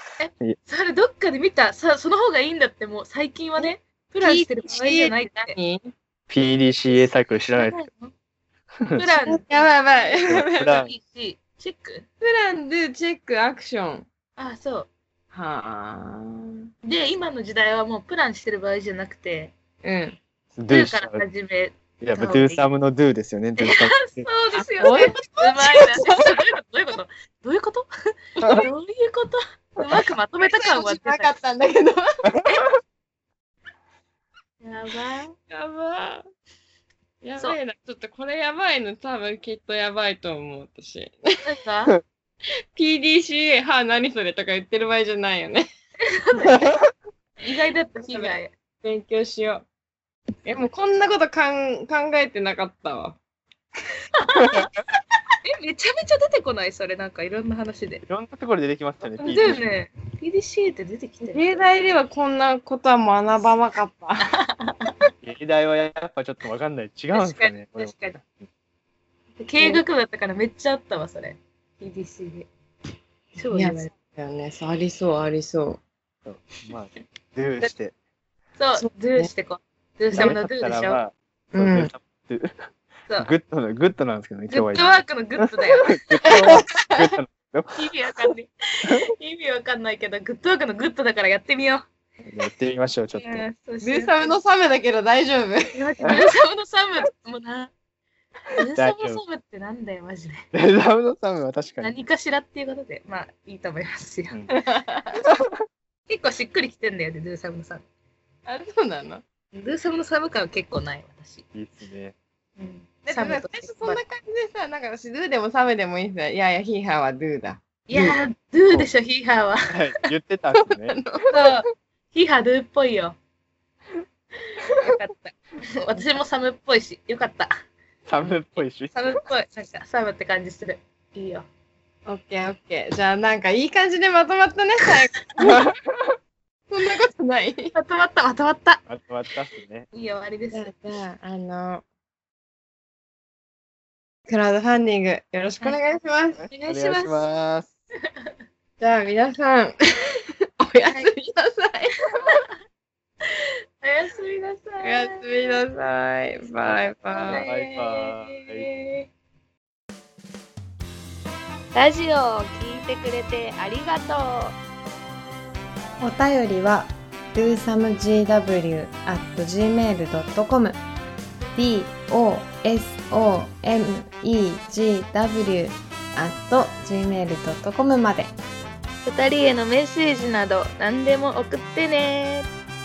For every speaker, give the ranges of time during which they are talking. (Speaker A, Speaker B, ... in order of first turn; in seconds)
Speaker A: 0.2-5.5, 7.5-8.1, 8.9-12.1, 14.4-14.9, 16.8-19.5, 20.7-21.8, 23.6-27.9, 28.5-31.3, 34.6-35.3, 41.4-42.0, 46.0-46.6, 47.4-48.5, 54.1-54.7, 55.4-58.0, 59.2-61.6, 64.3-64.9, 67.1-68.2, 69.4-72.5, 73.3-73.9, 78.6-81.0, 84.5-86.5, 87.8-91.8, 93.2-94.3, 95.7-97.7, 98.5-100.5, 101.8-104.4, 106.1-107.8, 109.5-111.4, 112.6-114.0, 117.9-119.8, 121.3-123.2, 124.6-127.5, 128.9-131.5, 137.7-138.8, 139.9-140.7, 146.5-147.2, 148.0-148.3, 152.0-152.5, 153.2-155.6, 157.2-159.1, 161.7-164.6, 179.0-182.5
Speaker B: 4.2-5.9, 9.3-10.8, 12.2-14.1, 15.3-16.5, 19.8-20.2, 22.2-22.6, 24.8-26.3, 28.4-28.7, 30.4-32.0, 35.5-36.2, 37.2-41.4, 42.7-45.7, 48.1-49.6, 50.4-53.2, 61.2-64.3, 73.5-75.8, 78.8-79.3, 81.5-81.9, 86.2-87.2, 93.8-95.7, 104.5-105.2, 108.5-109.2, 113.0-118.2, 120.5-121.6, 132.1-135.6, 136.7-137.7, 140.5-141.8, 144.3-146.4, 148.8-149.7, 150.6-152.0, 154.8-157.4, 166.0-170.8, 171.6-178.3
Speaker C: 6.3-7.8, 8.8-9.1, 10.2-10.9, 20.6-21.2, 22.0-24.6, 54.4-54.7, 58.0-59.6, 65.2-68.4, 76.2-77.9, 80.1-82.5, 83.2-87.8, 92.2-93.5, 98.7-99.2, 100.5-101.9, 105.2-105.6, 111.5-112.1, 119.7-120.9, 128.1-129.2, 135.4-136.2, 138.9-139.9, 146.7-147.7, 157.3-158.7